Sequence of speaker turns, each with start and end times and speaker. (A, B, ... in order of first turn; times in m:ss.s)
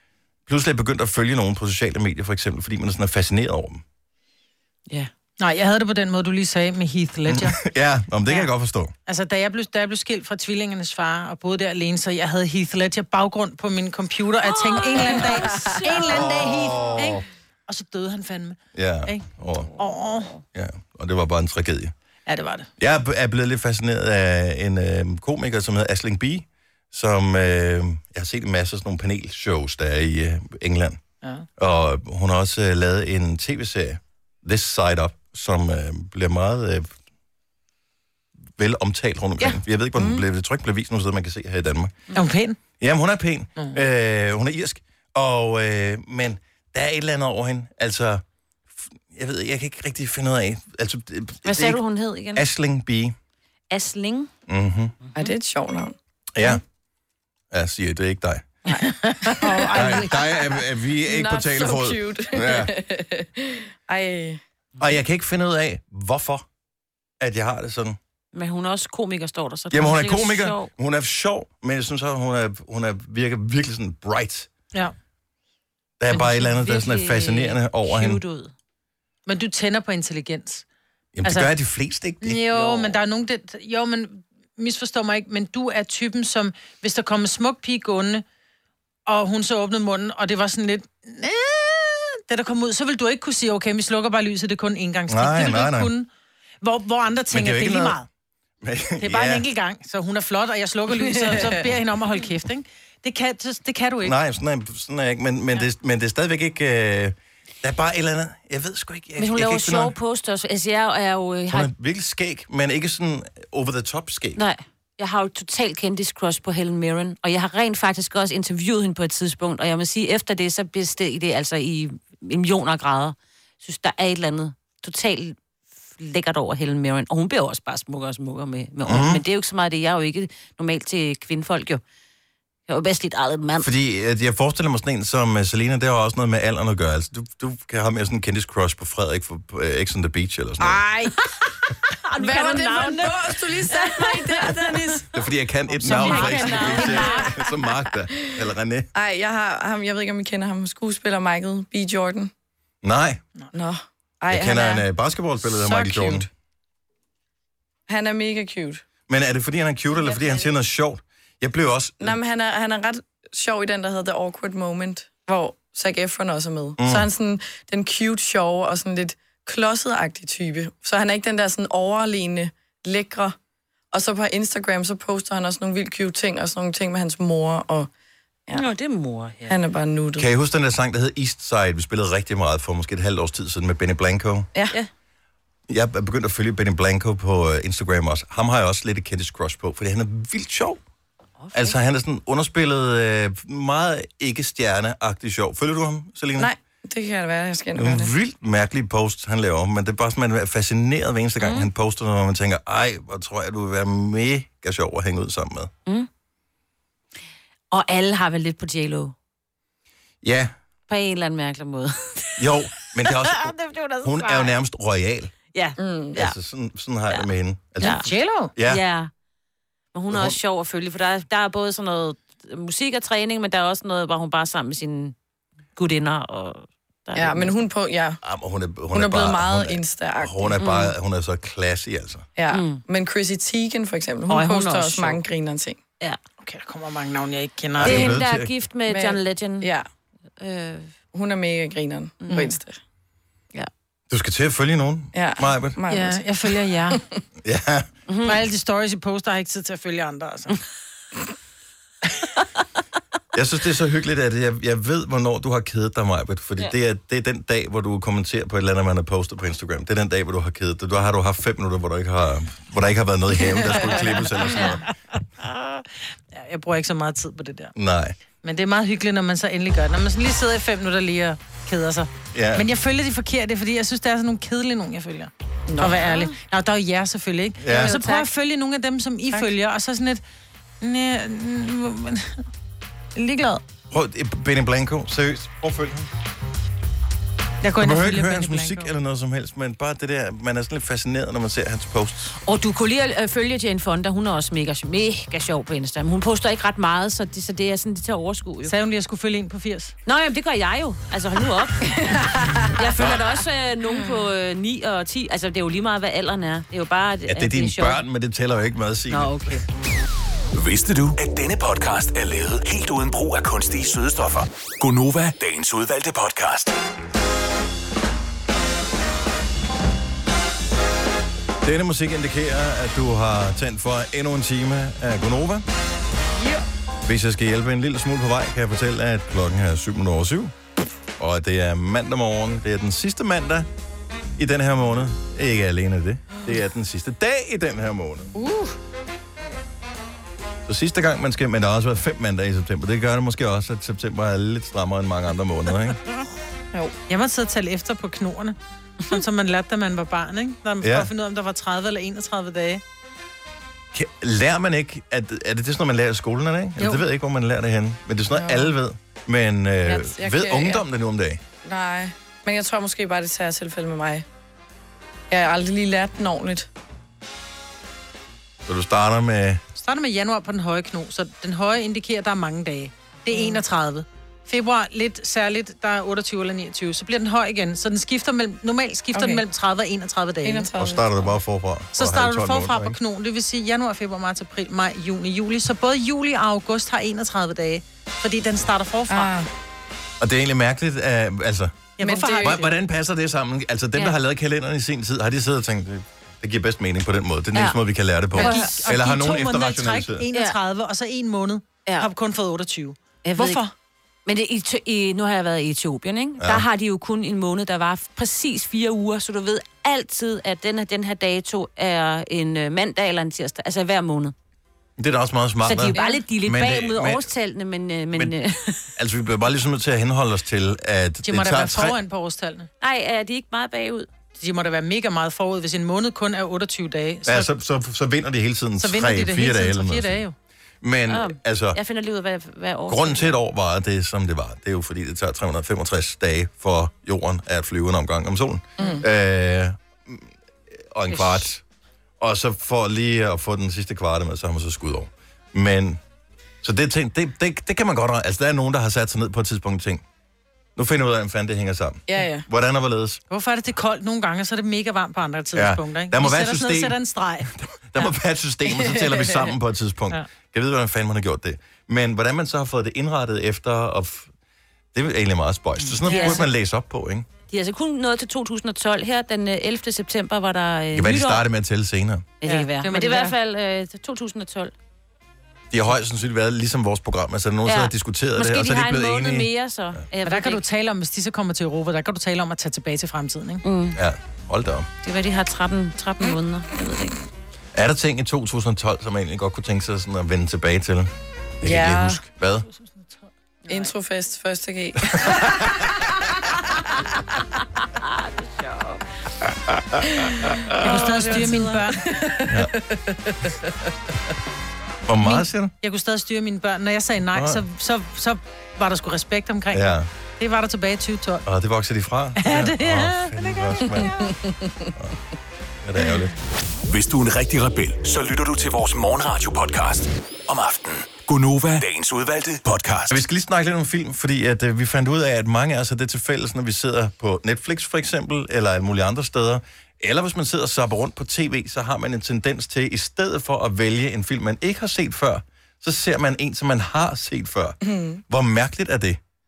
0:00.5-0:03.8 A
0:05.4-0:07.6 B
0:07.3-0:08.9 A
0:09.1-0:19.3 B
0:14.7-0:15.8 C
0:16.1-0:17.2 A
0:18.8-0:19.8 A
0:19.8-0:20.4 B
0:20.5-0:21.9 A
0:22.3-0:22.7 B
0:22.8-0:31.0 A
0:31.2-0:31.5 B
0:31.6-0:36.9 A
0:38.6-0:42.0 A
0:40.0-0:40.2 D
0:42.2-0:42.6 B
0:42.8-0:48.2 A
0:49.0-0:51.8 A
0:51.5-0:52.4 C
0:52.4-0:53.2 A
0:53.7-0:54.3 C
0:54.5-0:55.0 A
0:55.2-0:56.0 D
0:56.4-0:56.6 A
0:57.5-0:58.5 A
0:58.7-1:00.4 D
0:58.8-1:00.2 B
0:59.7-1:02.7 A
1:01.0-1:04.4 D
1:04.8-1:06.4 A
1:07.2-1:08.0 A
1:08.3-1:10.7 C
1:09.7-1:14.5 A
1:16.0-1:18.2 A
1:16.1-1:18.5 C
1:19.3-1:20.6 B
1:21.2-1:22.9 A
1:21.2-1:21.5 B
1:22.2-1:28.2 B
1:29.1-1:36.1 B
1:35.1-1:35.9 A
1:36.6-1:38.1 B
1:37.3-1:38.0 A
1:38.6-1:39.5 A
1:39.0-1:44.2 B
1:44.0-1:50.0 A
1:49.2-1:51.7 C
1:51.5-1:54.4 A
1:54.4-2:05.4 C
2:06.0-2:11.8 C
2:08.8-2:09.2 A
2:12.7-2:13.6 C
2:13.6-2:20.8 A
2:22.2-2:23.2 C
2:22.2-2:25.1 D
2:23.7-2:24.5 C
2:25.1-2:28.9 A
2:25.9-2:27.3 B
2:25.9-2:27.5 D
2:25.9-2:27.2 C
2:28.9-2:32.3 D
2:32.8-2:33.2 A
2:33.5-2:34.9 D
2:34.3-2:36.3 A
2:35.4-2:36.3 D
2:37.9-2:38.8 D
2:39.1-2:42.2 A
2:42.0-2:53.4 D
2:46.8-2:47.1 A
2:53.9-2:57.9 D
2:58.6-2:59.6 C
2:59.5-3:00.3 D
3:00.2-3:04.5 A
3:05.7-3:10.8 A
3:11.4-3:11.8 C
3:11.5-3:16.5 A
3:16.4-3:18.1 D
3:17.8-3:25.7 A
3:21.4-3:21.7 C
3:27.7-3:29.1 C
3:30.2-3:30.5 A
3:30.9-3:34.5 C
3:32.4-3:33.5 A
3:34.0-3:35.3 A
3:35.5-3:36.3 C
3:35.8-3:36.2 D
3:36.2-3:38.8 A
3:37.8-3:38.1 C
3:37.8-3:38.5 B
3:38.6-3:39.1 C
3:39.9-3:45.1 C
3:45.8-3:47.5 C
3:47.2-3:48.2 D
3:48.2-3:52.3 A
3:48.9-3:50.7 D
3:50.6-3:50.9 C
3:52.4-3:55.8 D
3:52.5-3:52.8 C
3:54.3-3:55.2 C
3:56.4-3:58.2 B
3:57.8-3:58.5 A
3:57.8-3:59.7 C
3:58.9-3:59.9 D
4:00.4-4:00.9 C
4:01.1-4:02.8 D
4:02.2-4:02.5 C
4:04.1-4:05.8 A
4:05.1-4:06.3 D
4:05.9-4:07.0 B
4:07.4-4:07.9 A
4:08.1-4:08.4 C
4:08.2-4:10.6 B
4:13.3-4:24.8 A
4:25.4-4:27.7 B
4:27.8-4:28.2 A
4:28.4-4:40.2 B
4:32.3-4:32.7 A
4:35.7-4:36.0 D
4:37.6-4:38.0 A
4:37.8-4:38.2 C
4:40.8-4:42.4 B
4:43.2-4:43.6 B
4:43.9-4:46.1 A
4:47.6-4:48.9 B
4:47.8-4:52.4 A
4:52.4-4:58.7 C
4:58.6-4:59.9 B
5:00.1-5:02.0 C
5:02.8-5:08.0 C
5:07.3-5:09.6 A
5:09.1-5:09.6 C
5:10.6-5:16.8 E
5:21.6-5:25.6 A
5:27.1-5:30.5 A
5:31.2-5:33.7 A
5:34.4-5:38.3 A
5:38.4-5:38.8 D
5:40.7-5:46.0 A
5:47.1-5:52.8 B
5:50.8-5:51.1 A
5:53.9-6:01.4 A
5:58.3-5:58.8 D
5:59.9-6:00.8 D
6:01.6-6:04.2 D
6:05.3-6:06.7 D
6:08.7-6:09.6 A
6:09.8-6:20.7 B
6:13.3-6:13.6 D
6:19.1-6:19.4 D
6:20.4-6:21.2 D
6:20.8-6:23.0 A
6:21.9-6:29.3 B
6:29.1-6:29.5 D
6:30.2-6:40.3 A
6:32.0-6:32.7 B
6:32.0-6:32.7 D
6:38.4-6:38.7 C
6:38.4-6:43.7 B
6:43.2-6:43.6 C
6:44.3-6:54.3 C
6:46.4-6:46.7 A
6:55.0-6:57.3 A
6:55.6-6:58.9 C
6:55.9-6:56.2 D
6:59.0-7:02.0 A
7:01.2-7:02.7 B
7:02.8-7:04.1 C
7:04.4-7:07.5 B
7:07.3-7:10.2 A
7:08.8-7:10.4 B
7:10.8-7:11.8 A
7:11.1-7:13.4 C
7:12.9-7:20.3 A
7:18.8-7:19.0 D
7:20.9-7:21.6 A
7:21.1-7:21.5 C
7:22.2-7:26.0 A
7:26.6-7:30.0 A
7:30.8-7:33.2 A
7:32.1-7:32.5 D
7:33.3-7:37.5 B
7:35.6-7:37.0 A
7:37.5-7:44.3 A
7:38.7-7:39.5 D
7:44.9-7:47.3 A
7:45.9-7:46.5 C
7:46.0-7:46.4 B
7:47.5-7:51.4 C
7:50.9-7:52.3 A
7:52.4-7:54.7 C
7:52.4-7:53.4 B
7:55.7-7:59.5 A
7:57.7-8:00.6 C
8:00.2-8:03.6 B
8:03.6-8:04.0 C
8:04.0-8:04.9 A
8:05.0-8:07.2 C
8:07.7-8:11.1 A
8:11.6-8:12.2 D
8:11.6-8:12.7 A
8:13.7-8:15.4 D
8:18.6-8:19.0 C
8:20.8-8:22.0 B
8:21.2-8:21.7 C
8:21.9-8:23.5 D
8:25.1-8:25.7 A
8:25.2-8:31.4 B
8:27.3-8:27.6 A
8:29.7-8:30.1 A
8:31.5-8:34.1 A
8:32.4-8:34.3 B
8:34.0-8:34.9 D
8:35.8-8:36.3 A
8:36.9-8:43.2 E
8:43.1-8:59.2 A
8:57.8-8:58.2 D